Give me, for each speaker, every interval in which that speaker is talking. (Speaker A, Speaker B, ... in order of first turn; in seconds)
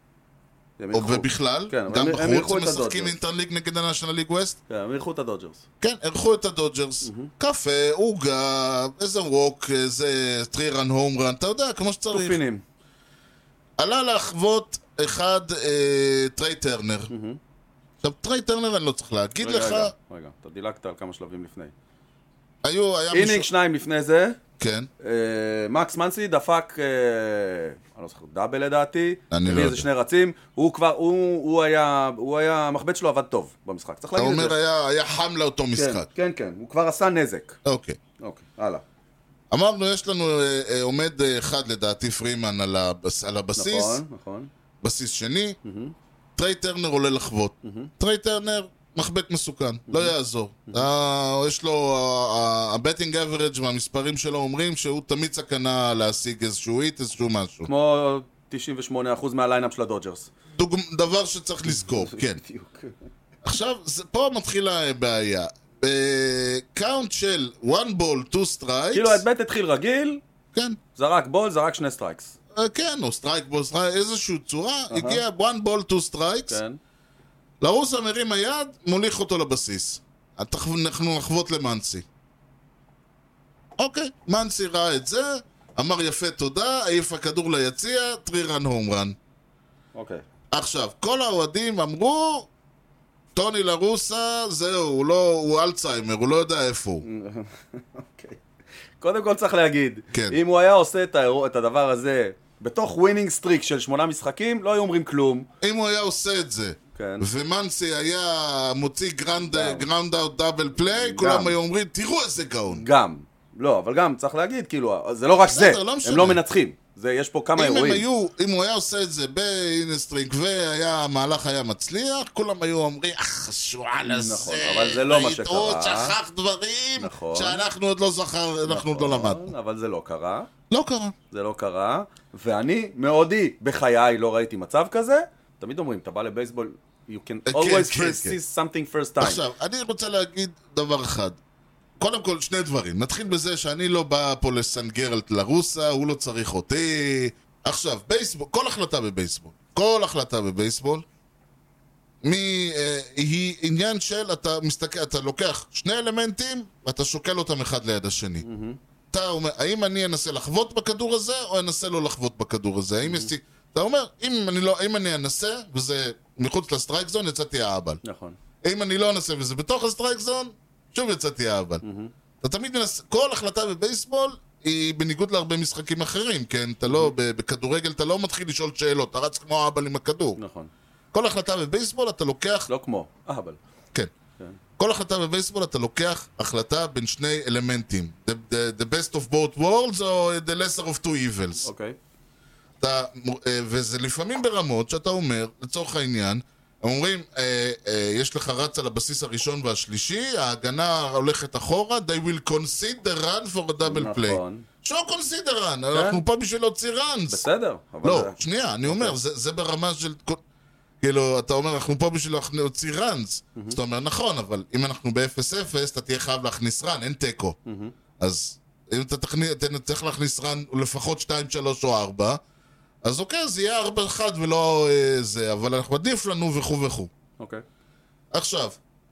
Speaker A: 0.8-3.2, 4.7-5.6, 7.0-7.3, 12.1-12.6, 17.1-17.4, 19.4-21.7, 23.1-24.4, 25.0-34.6, 35.8-37.6, 38.2-38.8, 43.6-44.5, 45.6-45.9, 47.6-47.9, 49.9-50.1, 57.6-60.3, 61.7-63.0, 68.9-70.2, 71.0-72.3, 74.9-75.2, 76.5-76.8, 89.9-90.2, 97.0-98.4, 99.0-105.5, 107.0-107.3, 109.4-109.9, 110.8-111.6, 112.7-118.1, 124.1-126.2, 127.0-127.7, 128.7-130.5, 131.3-139.4, 158.4-158.8, 163.0-163.3, 168.0-168.4, 171.8-172.1, 176.9-177.1, 180.4-180.7, 182.7-183.6, 191.6-192.0, 203.8-204.7, 205.9-206.2, 207.3-209.2, 217.7-217.9, 227.4-227.6
Speaker B: 0.9-4.6, 5.8-12.4, 13.8-17.1, 18.0-19.9, 22.6-23.5, 24.6-24.9, 29.3-29.9, 34.2-36.1, 37.6-38.0, 39.5-44.0, 44.8-45.6, 46.4-57.7, 60.6-62.4, 63.4-69.2, 72.5-76.6, 77.6-82.0, 83.8-89.2, 90.5-92.5, 93.3-97.0, 100.1-100.4, 105.6-112.8, 115.4-116.4, 117.6-129.5, 130.7-131.1, 137.5-138.4, 139.2-141.4, 142.0-151.0, 152.2-158.4, 159.1-168.0, 168.6-171.8, 172.4-180.4, 181.1-182.7, 184.8-191.7, 192.8-207.4, 208.0-210.4, 211.0-217.6, 218.2-222.4, 223.0-227.1, 228.3-228.8